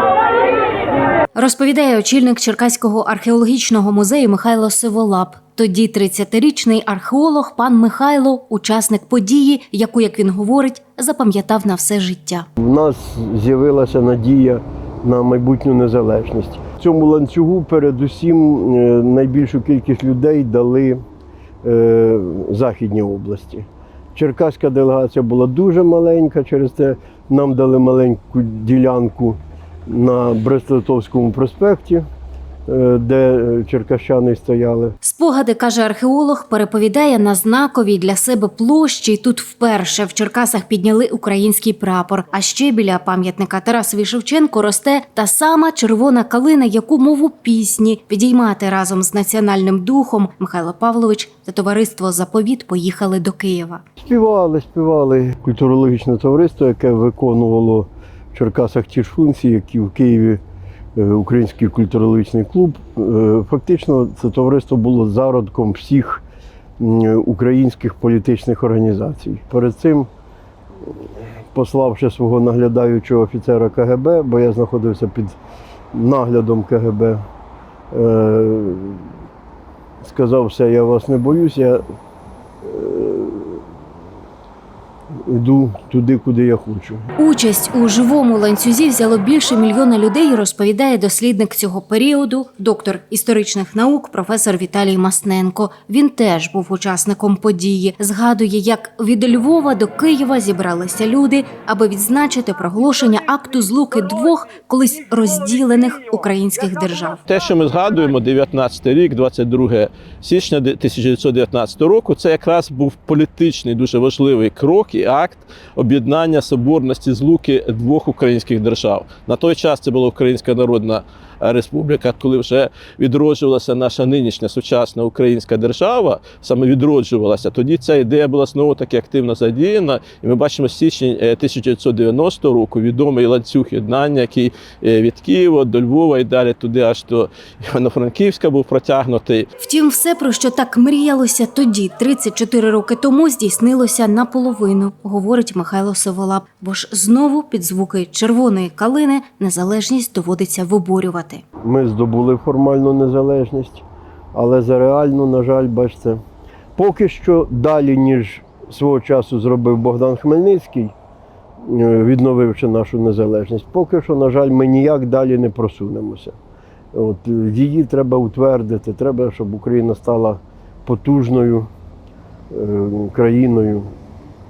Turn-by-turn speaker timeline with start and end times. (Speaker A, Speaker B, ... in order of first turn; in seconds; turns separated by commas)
Speaker A: 1.4-12.5, Speaker B: 12.6-21.0, Speaker B: 21.6-32.0, Speaker B: 32.7-35.0, Speaker A: 35.0-53.8, Speaker B: 54.0-60.4, Speaker B: 61.0-66.2, Speaker B: 66.8-70.1, Speaker B: 71.5-75.4, Speaker B: 75.9-77.2, Speaker B: 77.9-79.0, Speaker B: 80.0-81.8, Speaker B: 82.6-83.6, Speaker B: 85.3-87.0, Speaker A: 87.2-107.2, Speaker C: 107.3-139.5, Speaker A: 139.6-151.4, Speaker B: 151.6-156.2, Speaker B: 156.8-160.9, Speaker B: 161.6-166.3, Speaker B: 166.9-171.7, Speaker B: 172.5-173.9